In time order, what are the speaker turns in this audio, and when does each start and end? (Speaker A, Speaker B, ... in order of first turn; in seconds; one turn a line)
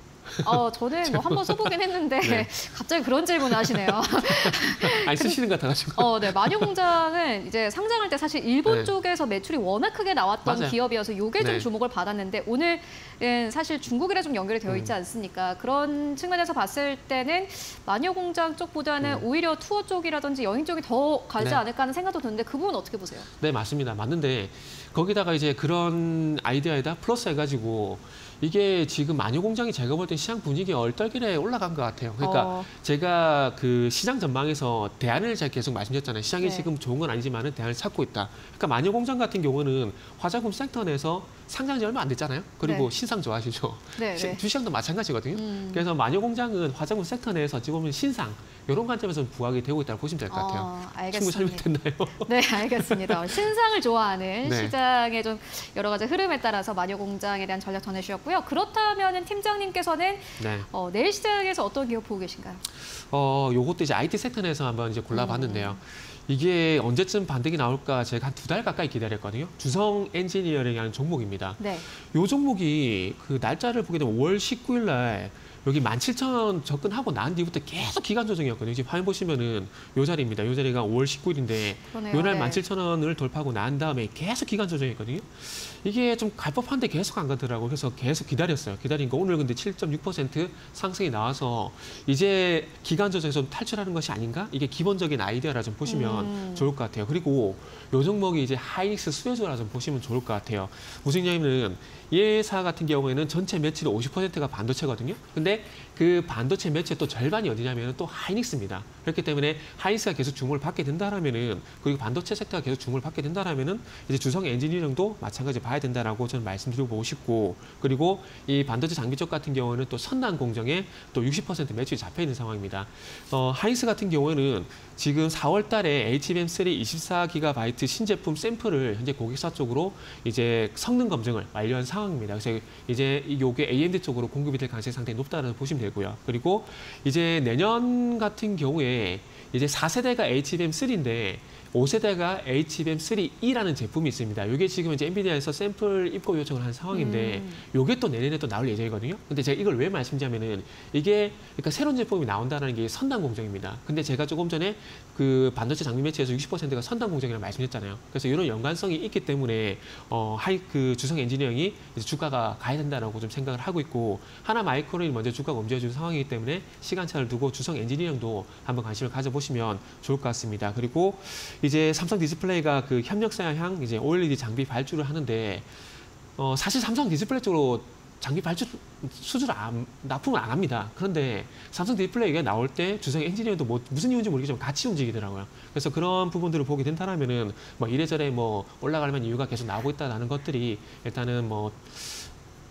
Speaker A: 0.3-2.5
Speaker B: 0.4-5.4
Speaker A: 3.5-6.8
Speaker B: 6.0-23.3
Speaker A: 8.7-8.9
Speaker A: 10.4-10.8
Speaker A: 11.4-11.7
Speaker A: 14.7-14.9
Speaker A: 23.4-53.4
Speaker B: 32.2-32.7
Speaker B: 36.4-36.7
Speaker B: 42.6-42.9
Speaker B: 44.0-44.4
Speaker B: 45.3-45.8
Speaker B: 50.3-51.7
Speaker B: 52.2-62.6
Speaker A: 54.4-54.7
Speaker A: 60.4-60.7
Speaker A: 62.9-175.7
Speaker B: 65.1-65.8
Speaker B: 71.6-71.9
Speaker B: 81.9-82.6
Speaker B: 95.8-96.7
Speaker B: 146.9-147.6
Speaker A: 176.4-192.3